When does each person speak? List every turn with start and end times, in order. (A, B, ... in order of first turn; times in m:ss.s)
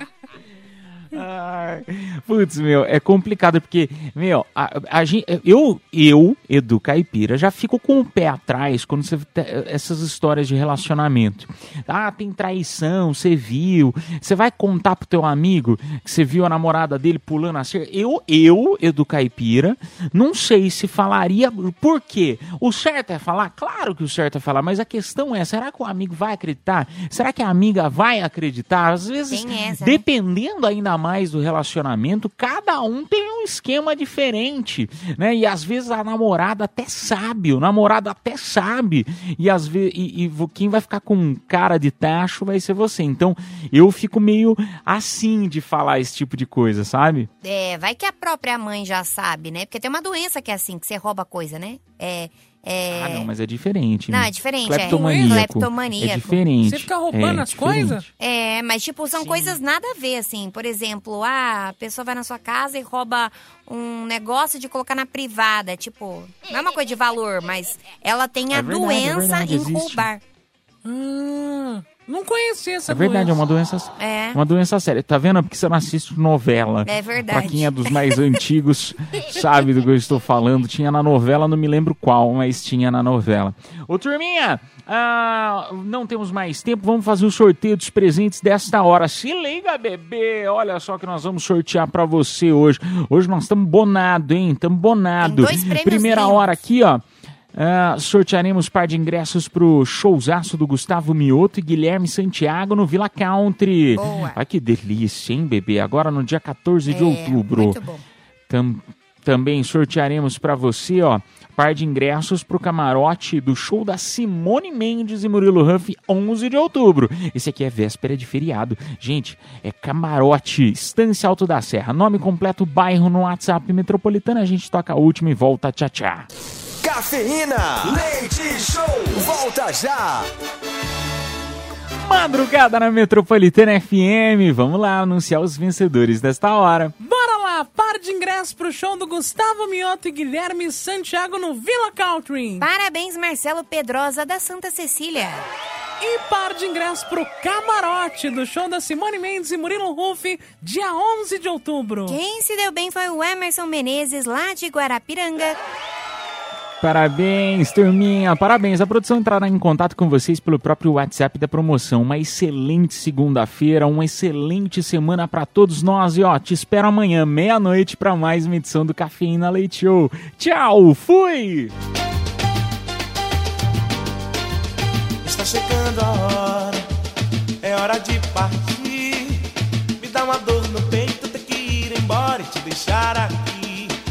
0:01.1-0:47.3 A
0:29.3-0:30.0 B
0:47.4-0:53.3 B
0:52.9-0:58.1 A
0:54.1-0:56.4 B
0:54.8-0:55.4 C
0:56.6-0:58.0 C
0:58.2-1:10.2 B
0:59.1-0:59.6 A
1:08.5-1:10.1 A
1:10.8-1:13.4 C
1:12.9-1:37.0 A
1:14.0-1:14.4 B
1:16.8-1:17.7 B
1:35.2-1:36.6 B
1:37.5-1:47.8 A
1:43.9-1:44.4 B
1:46.9-1:48.0 B
1:48.5-2:06.3 A
2:06.8-2:10.3 D
2:12.0-2:16.9 A
2:17.0-2:22.7 C
2:22.6-2:25.5 B
2:26.0-2:32.2 C
2:32.1-2:35.6 B
2:36.8-2:51.7 A
2:55.2-2:56.9 E
2:57.6-2:59.5 E
3:00.0-3:03.9 E